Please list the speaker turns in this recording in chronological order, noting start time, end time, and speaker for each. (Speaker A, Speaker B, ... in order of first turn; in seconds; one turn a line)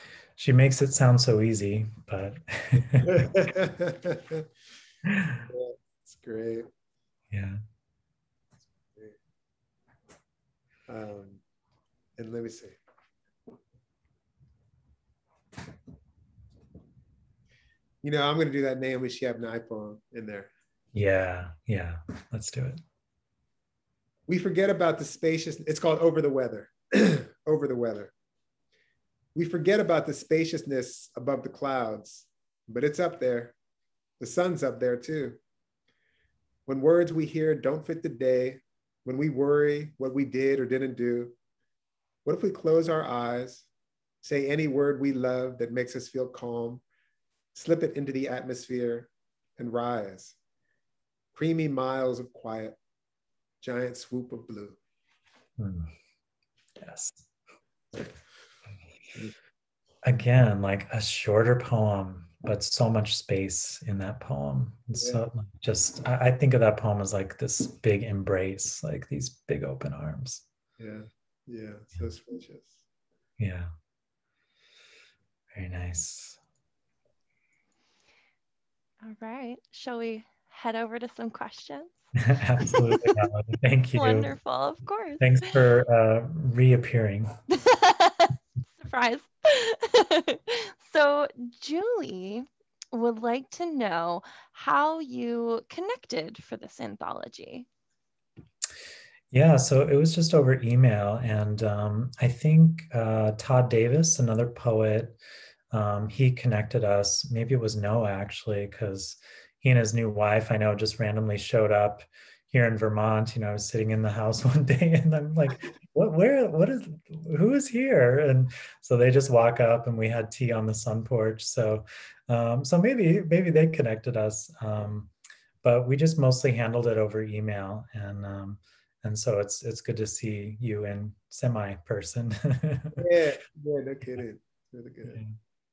Speaker A: 0.4-3.5
Speaker B: 3.0-4.5
Speaker A: 5.0-5.5
Speaker B: 5.5-6.7
Speaker A: 7.3-7.6
Speaker B: 10.9-11.4
Speaker B: 12.2-12.8
Speaker B: 18.0-20.5
Speaker A: 20.9-22.8
Speaker B: 24.3-28.1
Speaker B: 29.4-33.5
Speaker B: 34.2-35.4
Speaker B: 36.7-41.4
Speaker B: 42.2-43.7
Speaker B: 44.2-46.8
Speaker B: 47.5-50.4
Speaker B: 51.4-52.8
Speaker B: 53.6-54.8
Speaker A: 55.6-55.9
Speaker A: 56.8-57.3
Speaker A: 60.0-70.5
Speaker B: 70.8-72.8
Speaker A: 73.4-73.7
Speaker A: 75.5-76.4
Speaker C: 79.0-81.9
Speaker A: 82.2-84.3
Speaker C: 82.6-83.2
Speaker C: 84.0-85.5
Speaker A: 85.2-87.3
Speaker C: 87.5-97.7
Speaker A: 99.3-105.2
Speaker A: 105.7-125.1
Speaker A: 125.6-133.1
Speaker B: 133.0-135.2
Speaker A: 135.1-135.4